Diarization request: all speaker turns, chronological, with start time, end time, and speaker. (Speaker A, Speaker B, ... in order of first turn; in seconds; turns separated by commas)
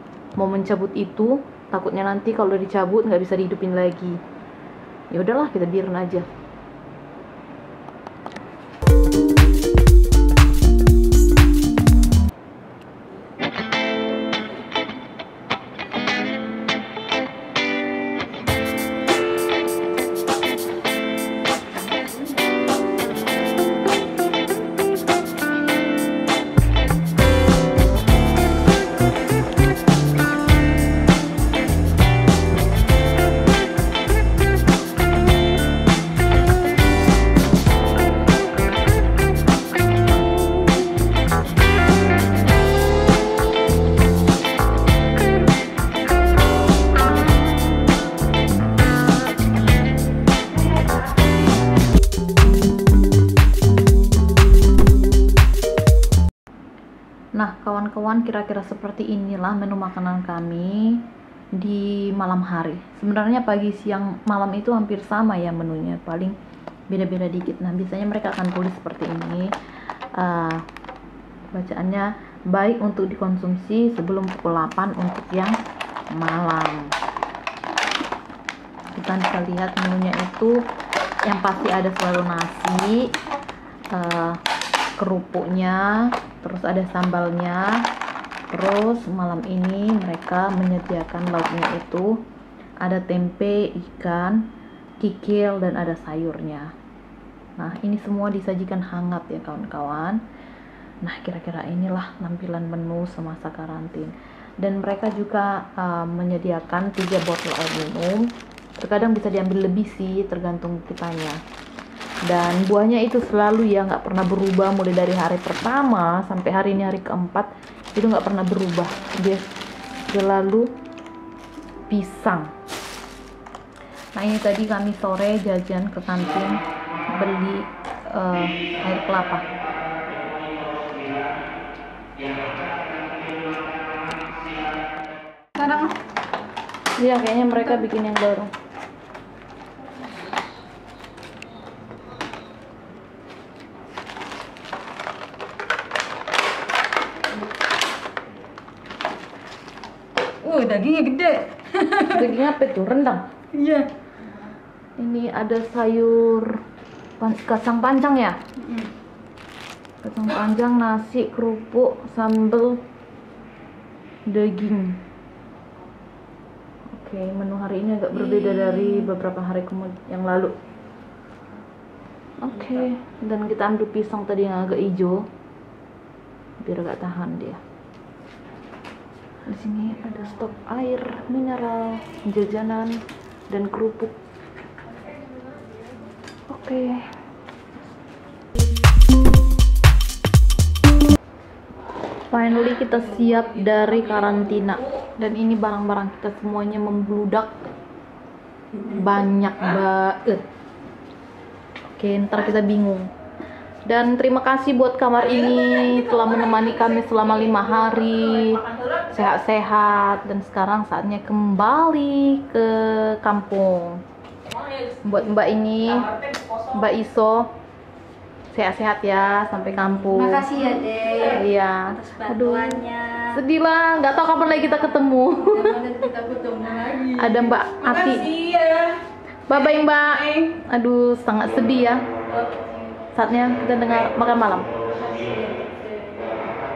Speaker A: 0.4-4.2, Speaker A: 5.1-6.3, Speaker A: 57.3-66.3, Speaker A: 66.9-69.5, Speaker A: 70.2-70.6, Speaker A: 71.5-75.6, Speaker A: 76.1-76.9, Speaker A: 78.9-80.6, Speaker A: 81.2-83.2, Speaker A: 83.9-84.4, Speaker A: 85.0-87.9, Speaker A: 88.5-92.2, Speaker A: 92.8-96.7, Speaker A: 97.6-100.2, Speaker A: 101.0-111.4, Speaker A: 112.2-119.5, Speaker A: 120.1-120.7, Speaker A: 121.9-122.5, Speaker A: 124.1-129.4, Speaker B: 135.6-135.9, Speaker A: 137.0-138.5, Speaker B: 150.4-152.3, Speaker A: 152.0-153.3, Speaker B: 153.5-153.9, Speaker A: 155.0-156.6, Speaker A: 157.2-158.4, Speaker A: 160.0-162.8, Speaker A: 164.3-165.0, Speaker A: 166.9-170.6, Speaker A: 172.4-175.3, Speaker A: 176.6-177.6, Speaker A: 179.4-184.2, Speaker A: 186.5-187.1, Speaker A: 192.3-197.5, Speaker A: 198.8-200.4, Speaker A: 201.8-203.1, Speaker A: 203.8-214.0, Speaker A: 214.9-217.5, Speaker A: 218.5-226.1, Speaker B: 220.1-221.4, Speaker B: 222.0-223.3, Speaker B: 225.5-227.3, Speaker A: 227.1-228.5, Speaker B: 228.2-229.0, Speaker A: 229.5-232.1, Speaker A: 233.1-234.7, Speaker B: 235.1-236.3